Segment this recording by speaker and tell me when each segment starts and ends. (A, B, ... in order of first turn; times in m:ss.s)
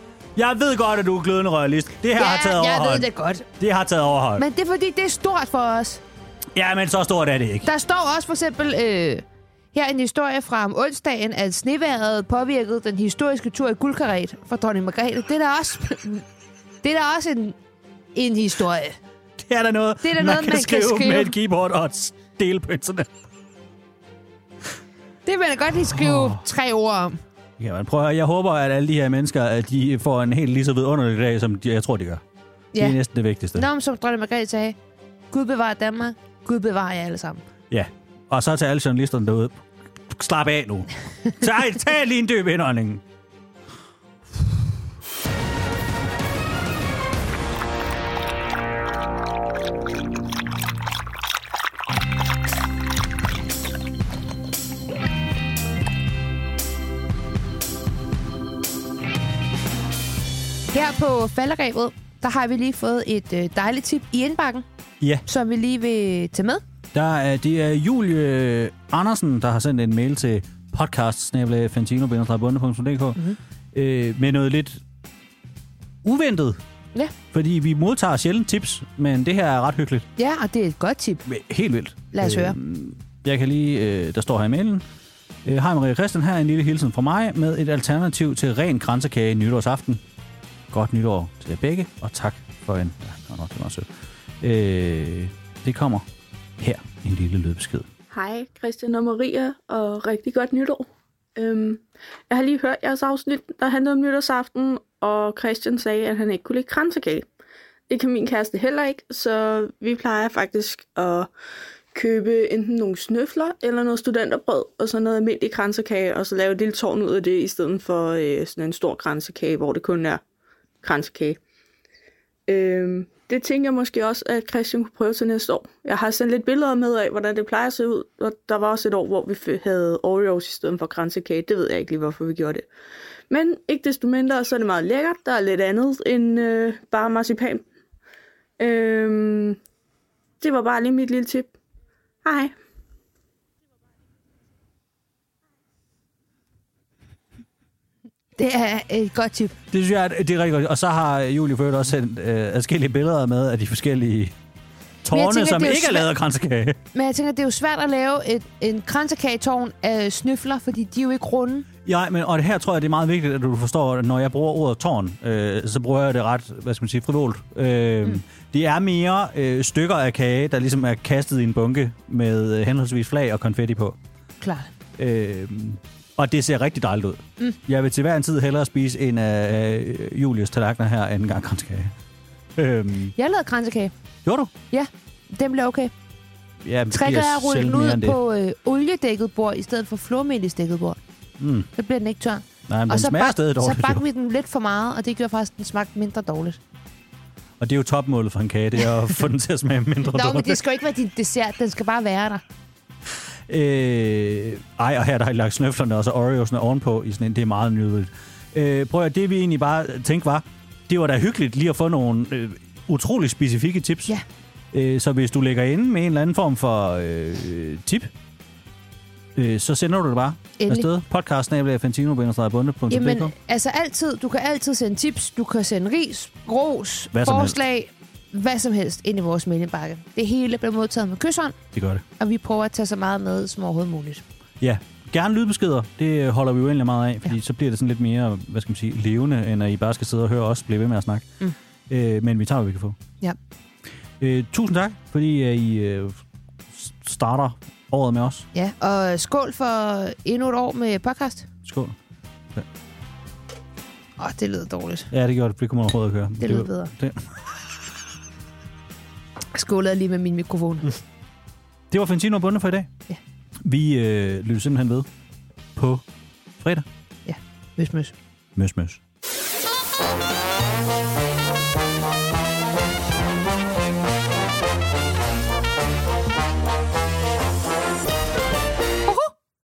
0:00.4-0:03.1 A
0:02.1-0:03.5 B
0:03.6-0:04.4 A
0:04.4-0:06.0 B
0:06.6-0:07.7 A
0:07.6-0:16.2 B
0:16.8-0:17.6 B
0:18.2-0:19.0 B
0:19.4-0:23.1 A
0:20.0-0:21.3 B
0:25.3-0:27.2 B
0:25.9-0:26.4 A
0:27.6-0:32.2 A
0:32.7-0:33.0 B
0:32.8-0:33.7 A
0:33.6-0:34.8 B
0:35.3-0:37.4 B
0:37.7-0:43.0 A
1:00.7-1:04.7 B
1:05.3-1:06.6 B
1:06.9-1:13.2 A
1:13.7-1:14.8 A
1:16.0-1:16.6 A
1:17.3-1:20.1 A
1:20.2-1:21.2 B
1:21.3-1:24.8 A
1:22.1-1:22.6 B
1:25.4-1:30.0 A
1:30.7-1:33.9 A
1:34.4-1:36.1 A
1:36.6-1:37.9 A
1:38.1-1:47.3 C
1:47.9-1:51.3 C
1:51.9-2:00.2 C
2:00.8-2:01.4 C
2:02.5-2:12.7 C
2:13.3-2:17.6 C
2:18.6-2:19.6 C
2:20.4-2:21.5 C
2:22.2-2:22.5 C
2:28.4-2:29.6 B
2:29.7-2:34.4 A
2:35.0-2:36.8 A
2:35.1-2:36.1 B
2:36.9-2:41.7 B
2:41.8-2:54.0 A
2:54.4-2:54.7 B
2:55.0-3:01.9 A
3:02.6-3:03.1 A
3:03.2-3:03.9 B
3:04.2-3:04.5 A
3:04.7-3:05.9 B
3:06.6-3:08.2 A
3:06.9-3:11.0 B
3:11.4-3:11.7 A
3:11.8-3:16.6 B
3:12.7-3:14.0 A
3:17.6-3:20.6 A
3:20.1-3:22.4 B
3:23.5-3:34.1 A
3:34.7-3:38.1 A
3:39.4-3:43.3 A
3:40.6-3:40.9 B
3:42.9-3:51.6 B
3:47.1-3:47.6 A
3:51.7-3:52.0 A
3:52.2-3:54.2 B
3:54.6-4:01.3 A
4:01.9-4:03.0 A
4:04.2-4:08.5 A
4:08.5-4:11.5 B
4:11.6-4:12.0 A
4:14.2-4:15.1 B
4:15.1-4:17.3 A
4:16.4-4:16.9 B
4:19.5-4:21.0 B
4:21.9-4:22.9 A
4:23.6-4:25.1 A
4:25.8-4:26.0 A
4:26.6-4:26.9 A
4:27.3-4:28.2 B
4:28.6-4:29.0 A
4:39.0-4:39.3 B